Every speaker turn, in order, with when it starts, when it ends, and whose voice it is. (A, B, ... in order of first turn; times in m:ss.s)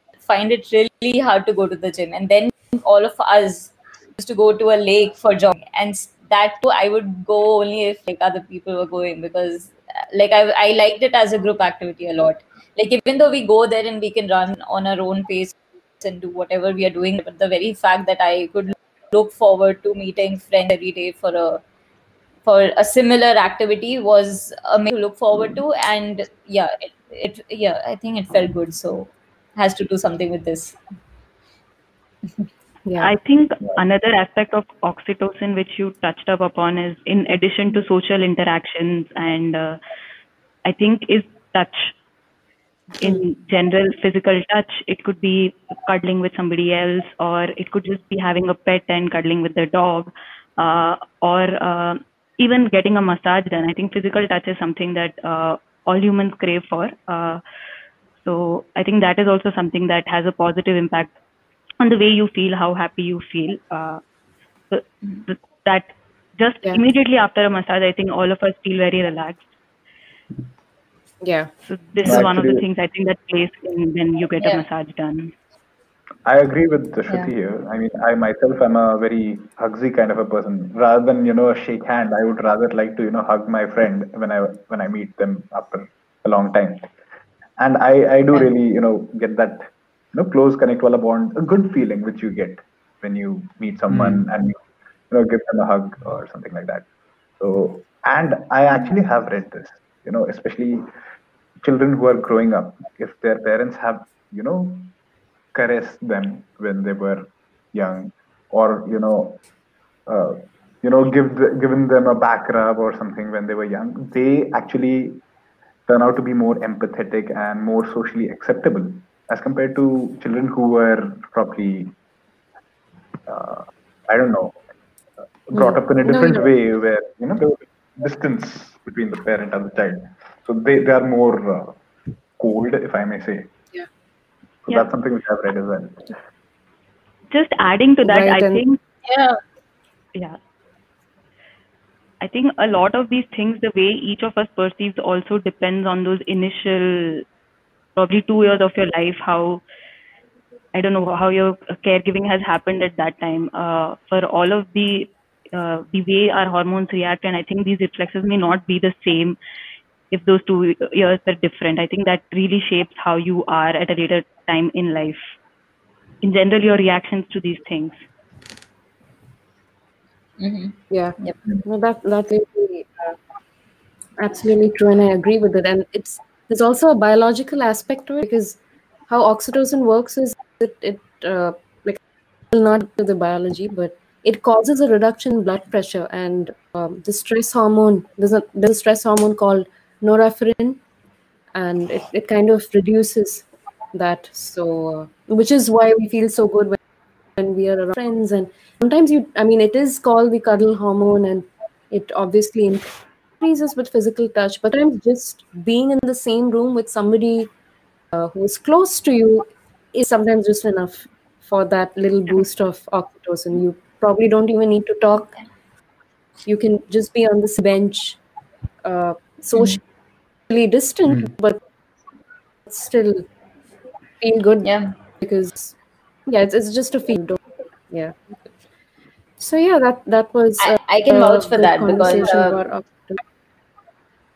0:00.2-0:21.6 A
0:22.4-0:30.8 A
0:32.8-0:33.1 B
0:33.0-0:39.8 C
0:40.6-0:41.9 C
0:43.0-0:57.4 C
0:58.2-1:01.1 C
1:01.8-1:04.0 C
1:04.7-1:09.4 C
1:11.2-1:11.5 B
1:11.7-1:15.3 C
1:12.0-1:12.6 D
1:16.2-1:26.9 D
1:27.6-1:34.6 D
1:35.1-1:36.8 D
1:37.4-1:40.9 D
1:41.6-1:44.9 D
1:45.5-1:49.4 D
1:50.1-1:55.2 D
1:55.9-2:01.9 D
2:03.3-2:04.6 D
2:05.5-2:11.8 D
2:05.5-2:06.4 B
2:12.4-2:13.5 D
2:14.6-2:16.2 D
2:17.3-2:18.8 C
2:18.0-2:19.4 B
2:22.2-2:27.2 C
2:27.9-2:29.6 C
2:30.7-2:39.4 C
2:40.1-2:45.2 C
2:46.2-2:48.0 C
2:50.4-2:51.4 A
2:50.9-2:53.2 B
2:54.2-2:58.6 B
2:59.1-3:02.0 B
3:02.5-3:10.8 B
3:11.5-3:16.8 B
3:17.4-3:22.9 B
3:23.4-3:27.5 B
3:28.1-3:35.4 B
3:36.4-3:38.2 B
3:38.8-3:39.8 B
3:40.5-3:41.6 B
3:42.6-3:43.2 B
3:44.2-3:45.7 B
3:44.6-3:44.9 A
3:46.3-3:48.1 B
3:49.4-3:53.2 B
3:50.6-3:52.6 A